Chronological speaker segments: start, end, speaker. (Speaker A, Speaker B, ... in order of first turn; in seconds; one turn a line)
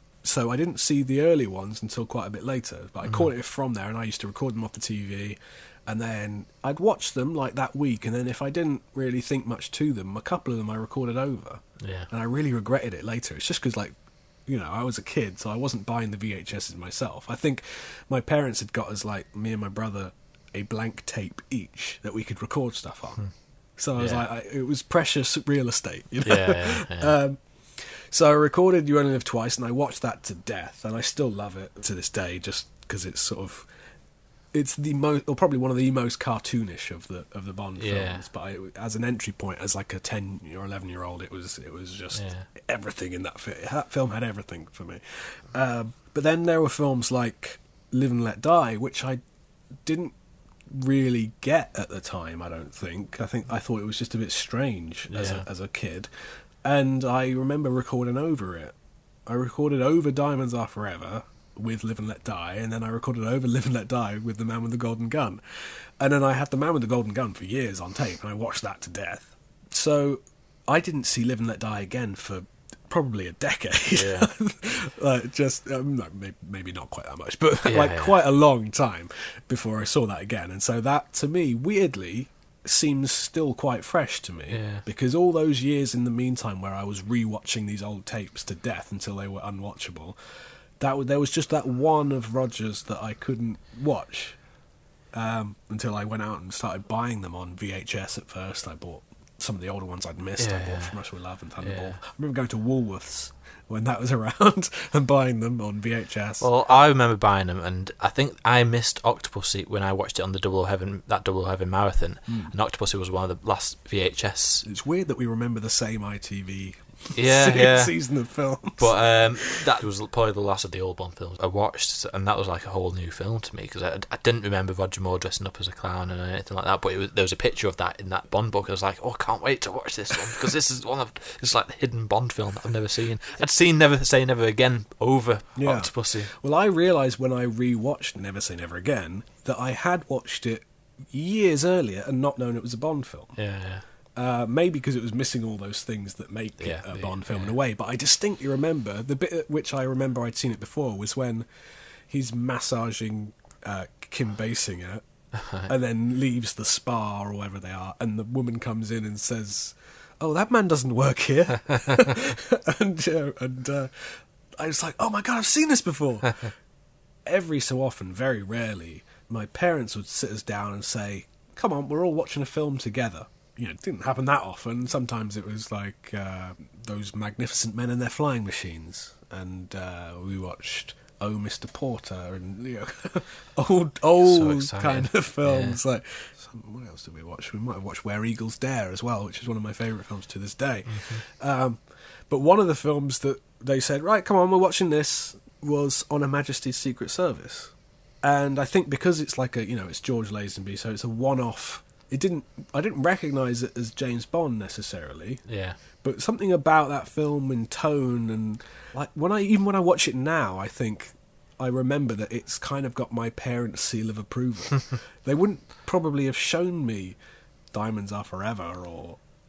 Speaker A: 0.2-13.9
Speaker B: 11.8-12.1
Speaker A: 14.5-23.2
Speaker A: 23.8-33.7
Speaker B: 23.9-24.2
Speaker B: 26.2-27.1
Speaker A: 34.5-49.2
Speaker B: 37.8-38.2
Speaker B: 42.1-42.5
Speaker A: 49.8-50.1
Speaker A: 50.7-56.1
Speaker B: 55.1-55.5
Speaker A: 56.6-58.7
Speaker A: 59.3-90.2
Speaker B: 73.9-74.3
Speaker B: 77.6-78.2
Speaker B: 84.5-84.8
Speaker A: 90.8-94.4
Speaker A: 95.1-106.5
Speaker B: 100.4-101.0
Speaker B: 101.6-102.0
Speaker B: 106.4-114.6
Speaker A: 112.3-112.5
Speaker A: 114.6-119.6
Speaker B: 117.2-117.9
Speaker B: 118.8-136.3
Speaker A: 135.6-143.3
Speaker B: 143.3-143.8
Speaker A: 144.2-151.4
Speaker B: 146.6-147.6
Speaker A: 152.1-155.0
Speaker B: 155.3-155.7
Speaker A: 155.6-166.5
Speaker A: 167.2-205.4
Speaker B: 184.2-185.8
Speaker B: 190.9-191.2
Speaker B: 205.4-205.8
Speaker A: 206.0-217.2
Speaker A: 217.7-219.2